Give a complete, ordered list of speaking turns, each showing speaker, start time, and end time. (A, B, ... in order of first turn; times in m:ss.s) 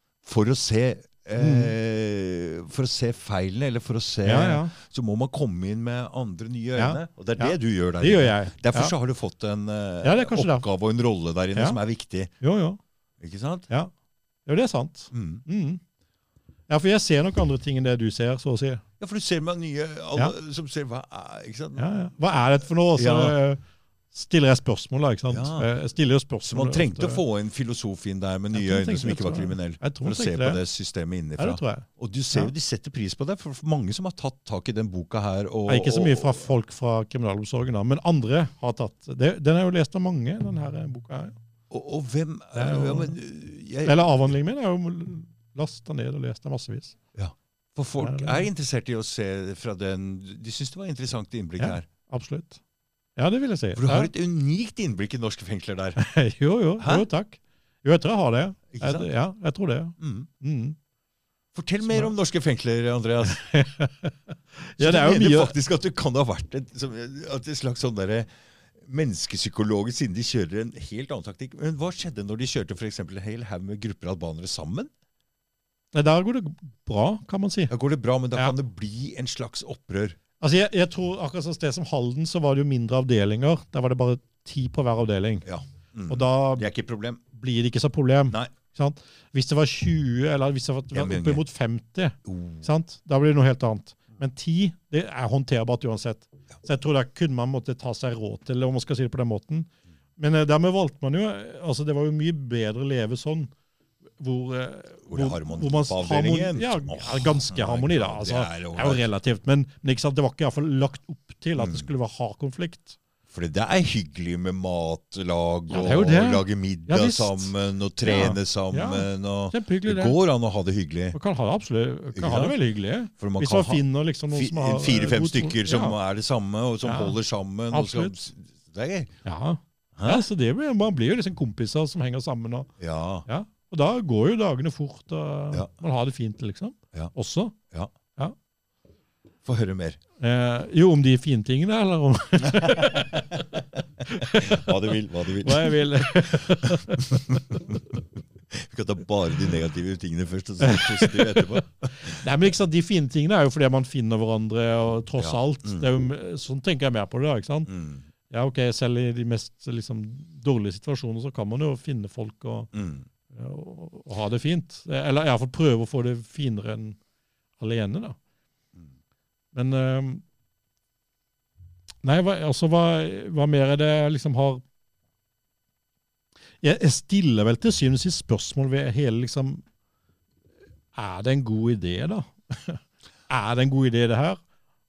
0:00.2-0:12.3 A
0:01.4-0:01.7 B
0:04.2-0:04.7 B
0:06.8-0:08.9 B
0:10.0-0:10.7 B
0:12.4-0:12.8 B
0:13.2-0:13.7 A
0:14.5-0:15.8 B
0:15.1-0:15.4 A
0:16.7-0:18.8 B
0:19.0-0:21.9 A
0:21.8-0:27.2 B
0:23.0-0:23.4 A
0:25.3-0:25.7 A
0:26.4-0:36.5 A
0:28.5-0:30.6 B
0:31.4-0:32.5 B
0:35.7-0:41.4 B
0:41.7-0:44.2 A
0:42.5-0:43.2 B
0:43.8-0:47.0 B
0:47.2-0:51.9 A
0:48.0-0:48.5 B
0:51.6-0:52.6 B
0:53.2-0:54.1 B
0:53.8-0:56.0 A
0:56.0-1:00.8 B
0:56.8-0:57.1 A
0:58.7-0:59.1 A
1:00.0-1:00.3 A
1:01.5-1:03.5 A
1:01.8-1:02.1 B
1:03.2-1:05.5 B
1:04.8-1:14.9 A
1:15.9-1:17.7 B
1:17.7-1:20.2 A
1:20.4-1:25.4 B
1:25.4-1:27.2 A
1:26.1-1:26.7 B
1:27.3-1:43.5 B
1:30.9-1:31.4 A
1:32.3-1:32.7 A
1:44.2-1:53.0 B
1:45.1-1:49.1 A
1:51.6-1:51.9 A
1:53.3-2:01.2 A
1:55.7-2:00.2 B
2:01.1-2:06.0 B
2:02.2-2:02.6 A
2:03.2-2:09.1 A
2:06.8-2:07.2 B
2:07.7-2:08.1 B
2:09.2-2:12.7 B
2:10.0-2:10.3 A
2:12.8-2:13.3 A
2:13.3-2:17.6 B
2:19.4-2:20.0 A
2:20.2-2:27.6 B
2:22.5-2:23.6 A
2:24.1-2:28.0 A
2:28.5-2:32.3 A
2:30.6-2:37.7 B
2:35.2-2:35.9 A
2:37.7-2:38.1 A
2:38.3-2:42.7 B
2:42.7-2:43.1 A
2:43.3-2:47.0 B
2:47.6-2:48.2 B
2:49.5-2:50.2 B
2:52.0-2:54.6 B
2:56.6-2:59.6 B
3:00.9-3:04.4 B